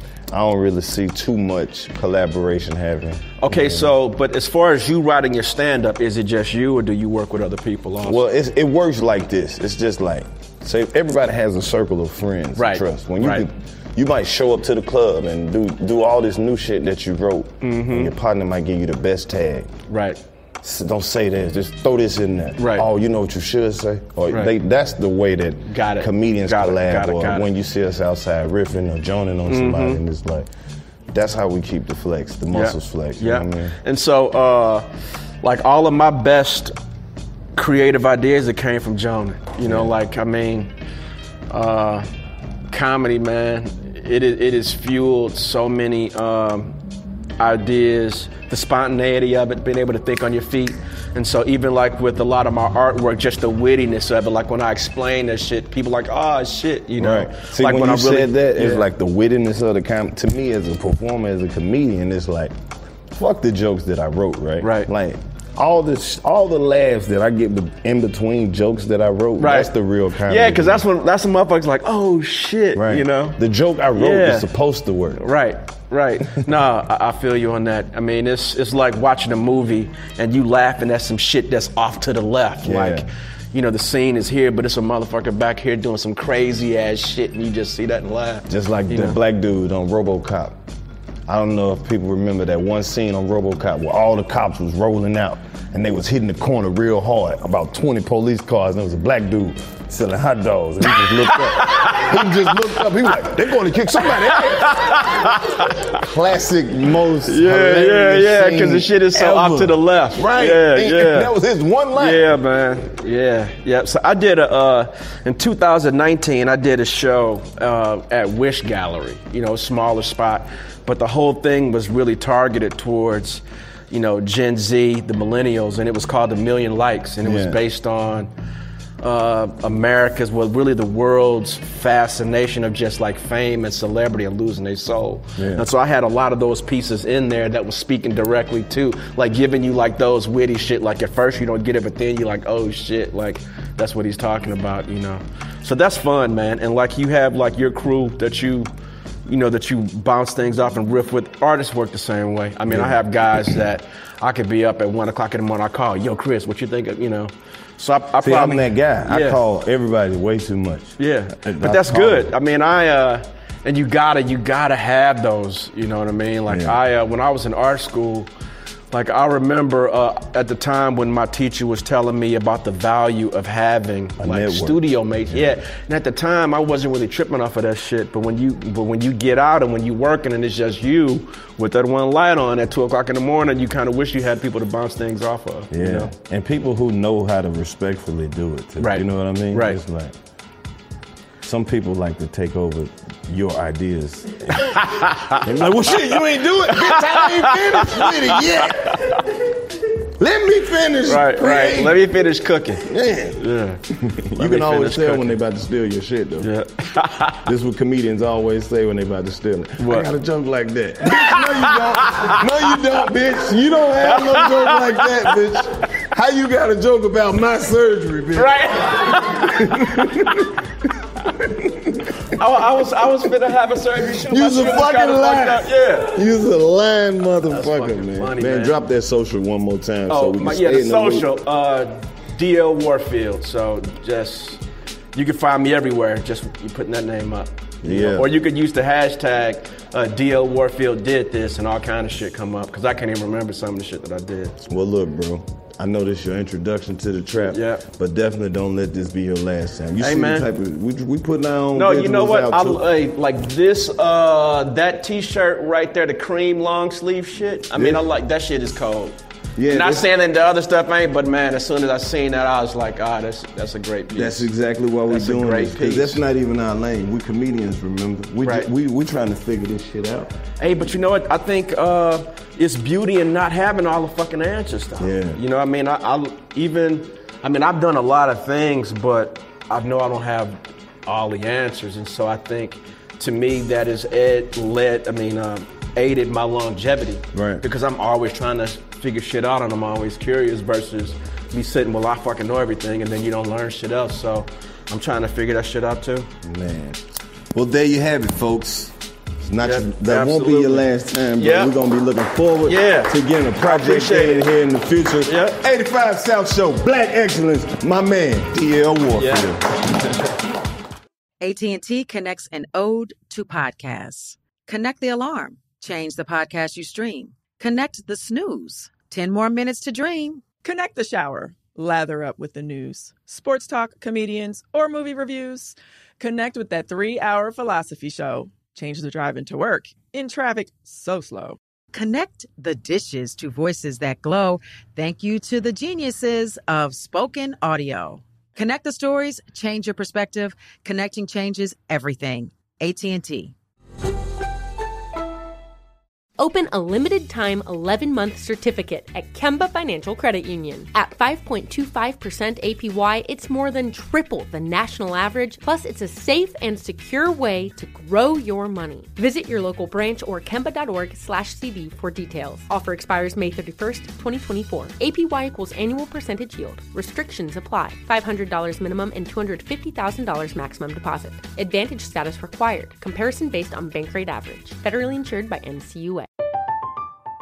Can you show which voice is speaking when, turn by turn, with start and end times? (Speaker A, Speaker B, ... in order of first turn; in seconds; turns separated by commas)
Speaker A: 0.3-3.9, Speaker B: 3.4-8.3, Speaker A: 8.0-19.7, Speaker B: 12.6-13.4, Speaker B: 17.6-18.1, Speaker B: 19.9-20.2, Speaker A: 20.6-30.5, Speaker B: 22.6-22.9, Speaker B: 25.7-27.5, Speaker B: 29.5-30.0, Speaker A: 31.1-33.8, Speaker B: 32.5-34.9, Speaker B: 35.4-36.7, Speaker B: 37.6-40.7, Speaker A: 39.6-40.0, Speaker B: 41.5-42.1, Speaker B: 42.7-46.8, Speaker B: 47.4-58.9, Speaker A: 57.0-62.5, Speaker A: 63.1-70.8, Speaker B: 64.6-64.9, Speaker B: 69.4-69.7, Speaker B: 70.3-73.4, Speaker A: 72.8-75.2, Speaker B: 74.0-74.5, Speaker B: 75.2-89.2, Speaker A: 82.6-83.1, Speaker A: 88.5-90.6, Speaker A: 91.3-112.3, Speaker B: 100.9-102.9, Speaker B: 104.0-106.0, Speaker B: 107.3-111.3, Speaker B: 112.0-128.3, Speaker A: 127.2-127.6, Speaker B: 129.0-148.7, Speaker A: 135.4-135.7, Speaker B: 149.3-159.4, Speaker A: 152.7-153.0, Speaker A: 158.2-162.3, Speaker B: 161.0-168.3, Speaker A: 166.5-166.8, Speaker B: 168.9-186.1, Speaker A: 174.2-175.5, Speaker A: 185.7-190.2, Speaker B: 188.8-189.8, Speaker A: 191.4-199.3, Speaker B: 194.6-195.4, Speaker B: 196.1-199.2, Speaker A: 200.2-202.2, Speaker B: 201.1-203.8, Speaker A: 202.8-203.4, Speaker A: 203.9-206.5, Speaker B: 204.4-205.4, Speaker B: 206.4-207.4, Speaker A: 207.4-220.6, Speaker B: 209.8-210.1, Speaker B: 211.1-212.8, Speaker B: 214.0-215.8, Speaker B: 218.3-220.4, Speaker A: 221.2-222.2, Speaker B: 222.3-226.2, Speaker A: 224.1-231.3, Speaker B: 227.5-228.8, Speaker B: 230.1-234.6, Speaker B: 235.1-244.6, Speaker A: 237.8-238.3, Speaker A: 244.7-252.8, Speaker B: 247.5-247.9, Speaker B: 250.0-250.5, Speaker B: 251.7-259.2, Speaker A: 257.8-258.0, Speaker A: 259.6-260.1, Speaker B: 259.7-264.5, Speaker A: 264.1-270.3, Speaker B: 265.1-266.2, Speaker B: 268.4-268.7, Speaker B: 270.6-296.3, Speaker A: 275.0-275.4, Speaker A: 287.3-287.6, Speaker A: 296.4-297.0, Speaker A: 297.5-309.6, Speaker B: 299.6-301.7, Speaker B: 302.7-304.4, Speaker B: 305.3-305.6, Speaker B: 309.2-310.3, Speaker C: 311.4-320.5, Speaker D: 320.6-331.6, Speaker C: 331.9-343.6, Speaker E: 346.4-376.3